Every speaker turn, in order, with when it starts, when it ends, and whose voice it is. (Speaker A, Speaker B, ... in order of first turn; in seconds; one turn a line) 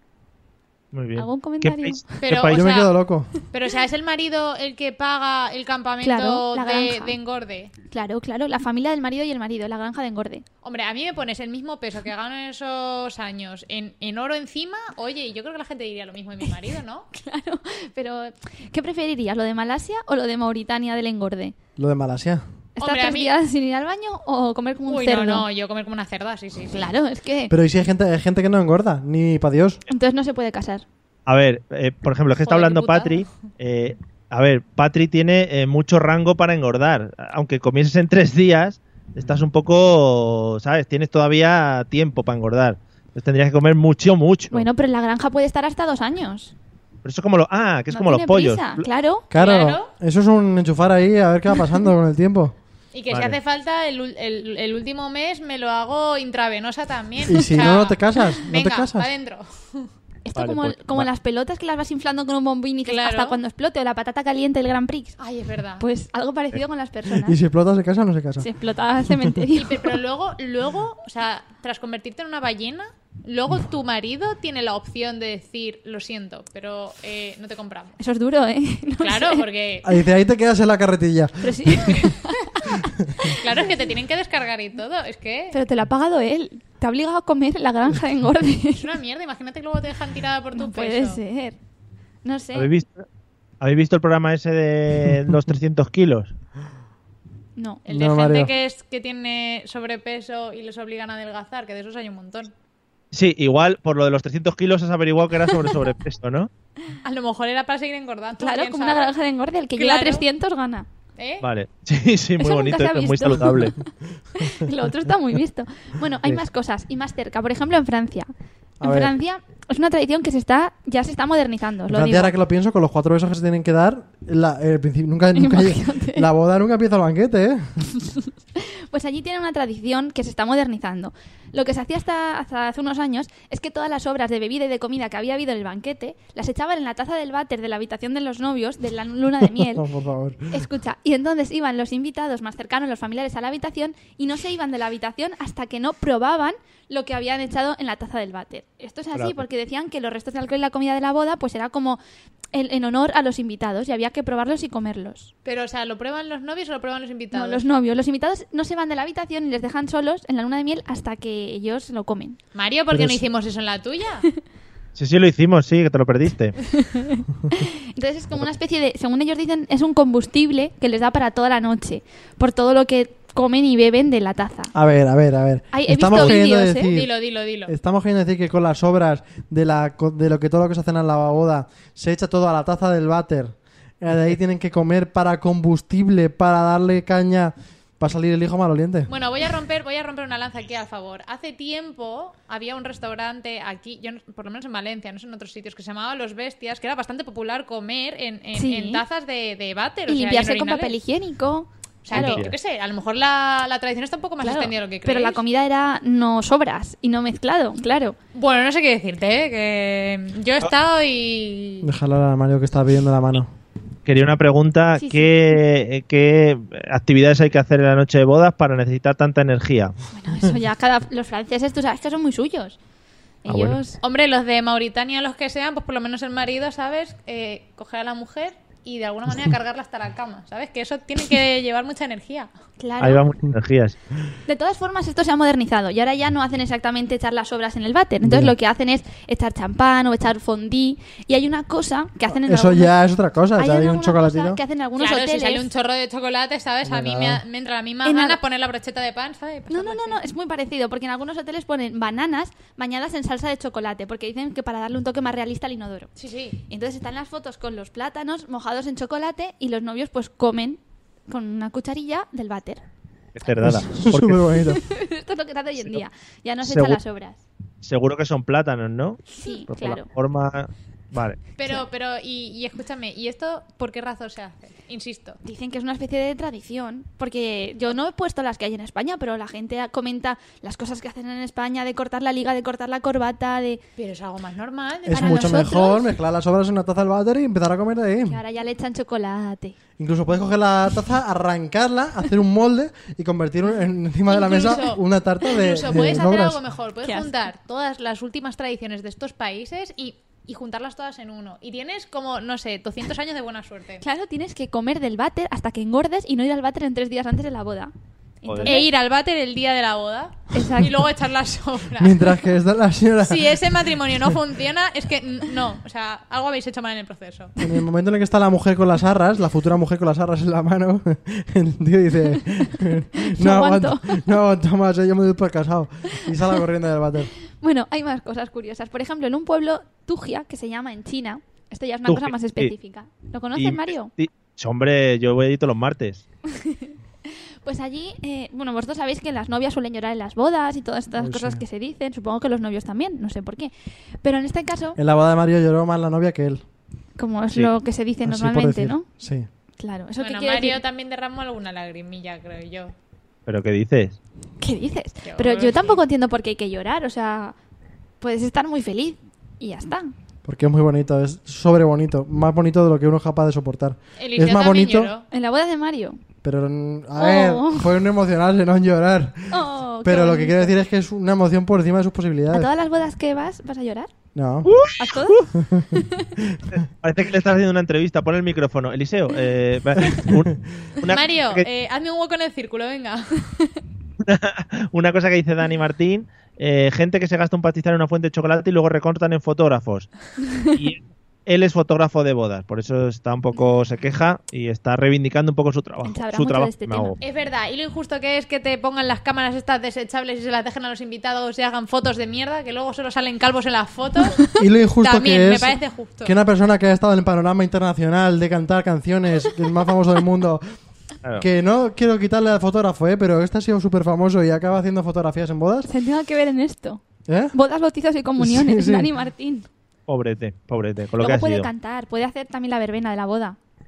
Speaker A: 0.9-2.6
Speaker B: 1.1-2.2
Speaker C: 2.2-2.9
Speaker D: 2.5-3.3
Speaker C: 3.5-7.7
Speaker B: 6.0-7.2
Speaker B: 7.9-10.4
Speaker C: 10.6-17.1
Speaker B: 17.1-21.6
Speaker D: 21.8-22.4
Speaker B: 22.8-25.4
Speaker C: 22.8-23.3
Speaker C: 24.9-26.9
Speaker B: 26.7-27.5
Speaker D: 27.5-29.8
Speaker B: 29.9-30.8
Speaker A: 31.3-44.7
Speaker C: 32.4-33.2
Speaker B: 44.5-46.5
Speaker A: 47.0-48.8
Speaker B: 47.9-49.3
Speaker D: 49.3-52.5
Speaker C: 49.4-49.9
Speaker C: 52.9-59.9
Speaker A: 53.1-53.4
Speaker D: 57.3-59.1
Speaker B: 60.2-65.2
Speaker A: 60.4-61.1
Speaker C: 62.9-63.4
Speaker C: 65.2-65.8
Speaker B: 65.8-67.4
Speaker D: 67.1-68.5
Speaker B: 68.4-70.0
Speaker C: 69.5-78.0
Speaker B: 78.0-79.5
Speaker C: 79.0-79.9
Speaker D: 79.8-82.0
Speaker B: 81.4-83.4
Speaker C: 83.3-85.6
Speaker B: 85.5-88.9
Speaker C: 88.8-91.2
Speaker B: 90.5-91.6
Speaker B: 92.2-92.7
Speaker A: 92.5-93.0
Speaker A: 93.6-96.3
Speaker B: 97.6-97.8
Speaker C: 97.9-102.5
Speaker D: 97.9-98.5
Speaker A: 103.1-106.5
Speaker C: 107.0-109.1
Speaker B: 108.4-110.9
Speaker C: 109.8-110.2
Speaker C: 111.2-111.5
Speaker A: 111.4-113.7
Speaker B: 112.4-113.8
Speaker B: 114.3-118.3
Speaker D: 118.8-119.1
Speaker B: 118.8-122.3
Speaker D: 121.9-127.7
Speaker B: 125.3-126.3
Speaker B: 128.6-139.8
Speaker D: 139.5-140.7
Speaker B: 140.5-152.0
Speaker A: 149.1-149.4
Speaker B: 152.5-155.3
Speaker C: 155.4-157.6
Speaker B: 157.3-162.4
Speaker C: 162.6-164.2
Speaker D: 162.9-163.2
Speaker A: 164.9-166.6
Speaker B: 166.8-174.7
Speaker D: 174.7-177.1
Speaker B: 175.7-176.9
Speaker C: 176.1-177.7
Speaker D: 177.7-189.1
Speaker C: 189.1-200.9
Speaker B: 198.6-199.0
Speaker B: 200.1-202.4
Speaker C: 202.0-205.4
Speaker A: 202.1-202.6
Speaker B: 204.4-208.2
Speaker C: 208.3-211.9
Speaker D: 211.8-213.5
Speaker A: 214.1-219.9
Speaker B: 215.0-215.6
Speaker B: 220.1-222.8
Speaker B: 223.4-224.0
Speaker A: 223.5-223.8
Speaker C: 224.0-232.5
Speaker B: 232.8-233.2
Speaker A: 233.0-233.9
Speaker B: 234.4-242.9
Speaker D: 238.2-238.5
Speaker D: 242.3-244.6
Speaker B: 243.6-245.7
Speaker C: 245.0-250.2
Speaker D: 246.8-247.4
Speaker B: 248.1-248.4
Speaker B: 249.7-256.1
Speaker C: 256.2-256.6
Speaker B: 256.7-262.8
Speaker A: 263.4-264.4
Speaker B: 263.4-264.1
Speaker D: 263.6-264.8
Speaker B: 264.8-267.4
Speaker A: 266.6-267.0
Speaker A: 267.8-271.4
Speaker B: 269.4-270.1
Speaker C: 271.6-275.4
Speaker B: 275.4-283.8
Speaker C: 284.0-285.9
Speaker D: 285.1-288.4
Speaker B: 285.1-286.1
Speaker B: 288.2-289.8
Speaker D: 290.0-296.6
Speaker C: 294.3-304.0
Speaker B: 295.9-296.3
Speaker B: 297.0-297.5
Speaker B: 304.0-307.9
Speaker B: 308.4-308.9
Speaker A: 308.4-308.8
Speaker C: 308.6-312.4
Speaker B: 310.5-310.9
Speaker D: 312.0-314.2
Speaker C: 313.2-317.6
Speaker D: 317.6-327.3
Speaker B: 323.3-324.2
Speaker B: 327.6-334.1
Speaker A: 332.1-332.7
Speaker A: 333.6-336.2
Speaker B: 336.6-336.9
Speaker B: 337.6-343.7
Speaker D: 341.2-341.6
Speaker B: 344.2-345.0
Speaker D: 345.0-346.6
Speaker B: 347.2-349.1
Speaker D: 348.2-349.5
Speaker B: 349.8-350.8
Speaker C: 350.2-352.9
Speaker A: 353.5-354.2
Speaker B: 354.6-357.6
Speaker C: 355.2-356.0
Speaker B: 358.2-360.1
Speaker D: 360.4-365.1
Speaker C: 364.2-365.2
Speaker B: 365.3-366.2
Speaker D: 366.4-372.7
Speaker B: 367.1-367.9
Speaker B: 369.5-370.7
Speaker B: 372.5-374.1
Speaker D: 374.4-374.7
Speaker A: 374.6-375.5
Speaker B: 375.0-376.3
Speaker D: 375.6-375.9
Speaker D: 376.4-376.7
Speaker A: 376.7-381.7
Speaker C: 381.1-383.5
Speaker A: 384.2-390.1
Speaker A: 390.7-397.2
Speaker B: 396.0-397.2
Speaker C: 397.2-404.4
Speaker D: 404.6-410.6
Speaker C: 405.0-406.3
Speaker D: 411.4-415.9
Speaker B: 415.9-417.0
Speaker D: 417.3-417.6
Speaker B: 417.5-419.7
Speaker D: 418.4-419.1
Speaker A: 420.1-421.7
Speaker B: 421.2-423.6